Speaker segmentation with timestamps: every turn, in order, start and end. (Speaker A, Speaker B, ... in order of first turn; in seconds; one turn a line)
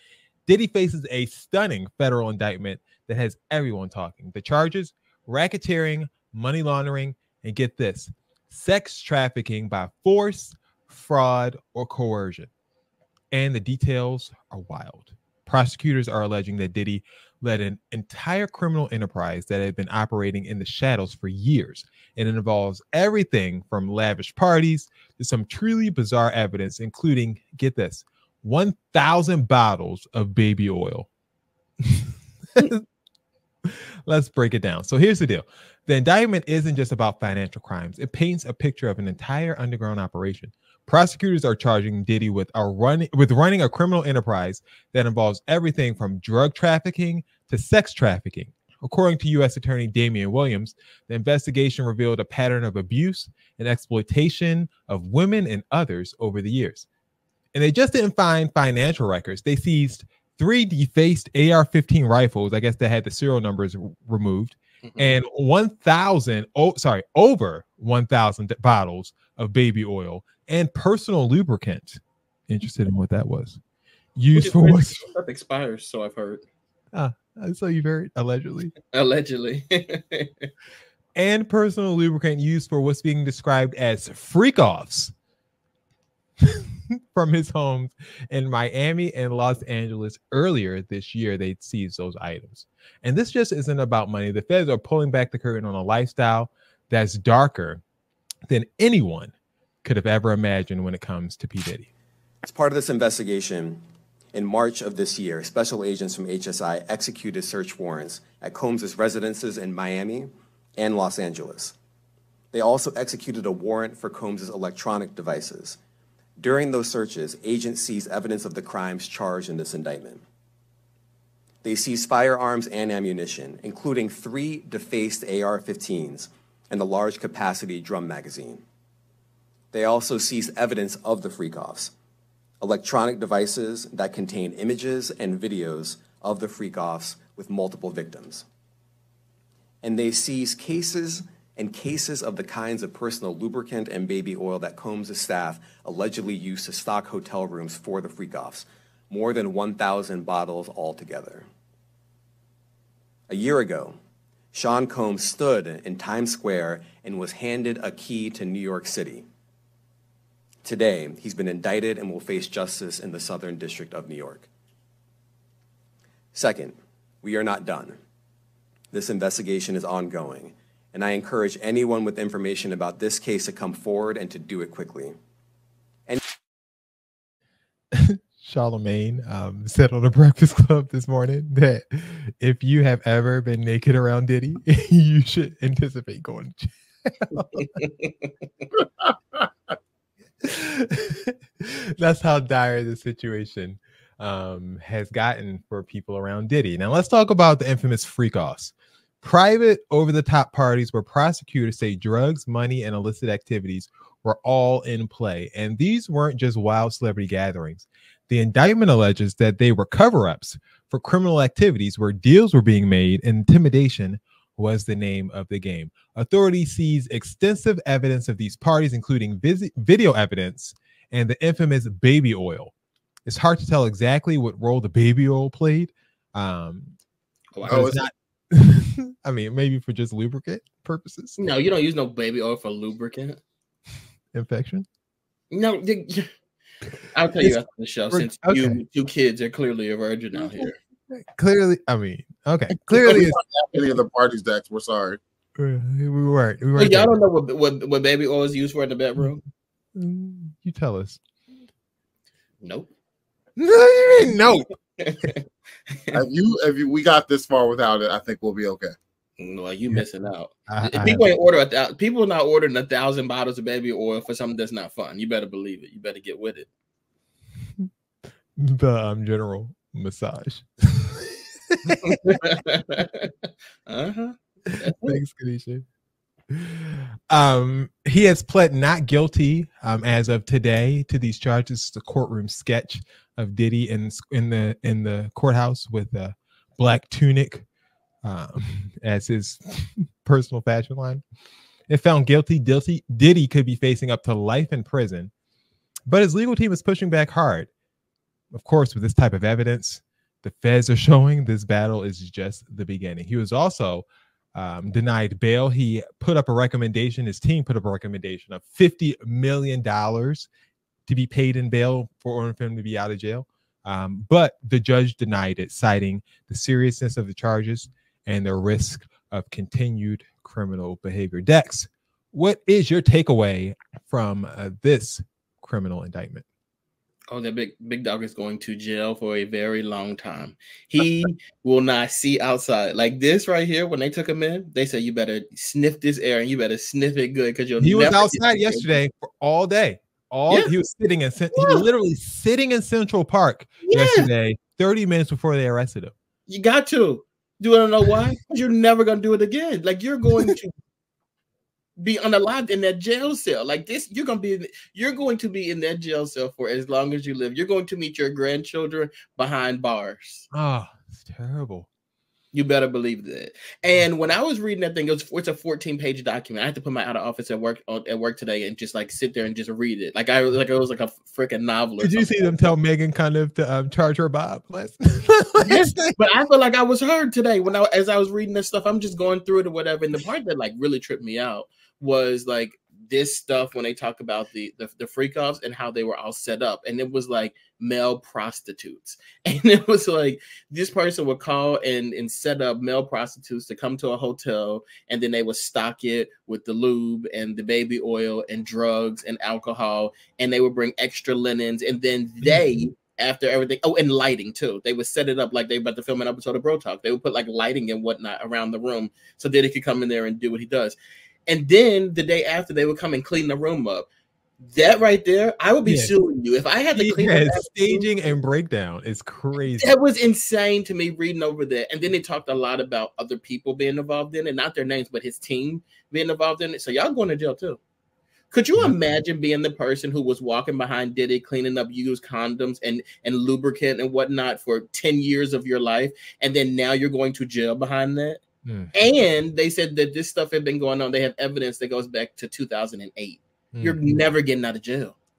Speaker A: 0.5-12.5
Speaker A: 13.3-31.1
Speaker A: 32.5-32.8
Speaker A: 34.1-56.9
Speaker A: 57.5-73.6
Speaker B: 64.8-65.2
Speaker A: 74.2-75.1
Speaker B: 74.3-76.4
Speaker A: 76.9-78.7
Speaker B: 78.9-80.5
Speaker A: 81.2-85.1
Speaker A: 87.1-97.8
Speaker A: 98.5-99.3
Speaker A: 99.8-101.9
Speaker C: 102.4-111.8
Speaker C: 112.5-115.8
Speaker C: 116.4-120.2
Speaker C: 121.6-128.6
Speaker C: 129.7-131.9
Speaker C: 132.6-138.5
Speaker C: 139.8-151.5
Speaker C: 153.3-154.0
Speaker C: 154.5-159.3
Speaker C: 160.6-164.5
Speaker C: 166.3-168.0
Speaker C: 168.9-175.2
Speaker A: 177.9-187.7
Speaker B: 187.5-188.3
Speaker A: 190.4-222.7
Speaker A: 223.2-226.9
Speaker B: 227.5-228.0
Speaker A: 227.6-231.4
Speaker D: 227.7-228.0
Speaker B: 231.4-233.4
Speaker A: 234.3-234.8
Speaker B: 235.5-236.3
Speaker B: 237.1-240.8
Speaker A: 237.4-238.8
Speaker A: 240.4-243.4
Speaker D: 243.0-245.2
Speaker A: 245.6-247.2
Speaker B: 246.8-249.4
Speaker A: 250.0-251.2
Speaker B: 252.6-252.9
Speaker A: 253.6-254.7
Speaker B: 255.0-255.4
Speaker B: 255.9-256.2
Speaker D: 256.1-258.9
Speaker B: 259.4-266.7
Speaker A: 260.7-261.4
Speaker A: 268.6-272.0
Speaker B: 272.0-273.3
Speaker B: 273.9-275.2
Speaker A: 275.0-275.9
Speaker A: 276.5-287.6
Speaker A: 288.2-291.2
Speaker A: 291.9-295.3
Speaker A: 296.1-297.7
Speaker A: 298.5-310.5
Speaker A: 311.1-326.4
Speaker B: 327.3-338.9
Speaker A: 337.8-346.1
Speaker B: 341.5-341.8
Speaker B: 343.8-344.3
Speaker B: 346.5-350.7
Speaker B: 352.0-360.5
Speaker A: 360.5-361.9
Speaker B: 362.5-372.5
Speaker A: 372.0-376.1
Speaker B: 375.6-411.0
Speaker A: 402.4-402.8
Speaker B: 411.5-414.1
Speaker B: 414.6-418.1
Speaker A: 415.9-416.1
Speaker A: 416.9-420.0
Speaker B: 419.6-427.8
Speaker B: 428.5-438.4
Speaker A: 438.6-438.9
Speaker B: 438.9-445.1
Speaker A: 443.7-444.0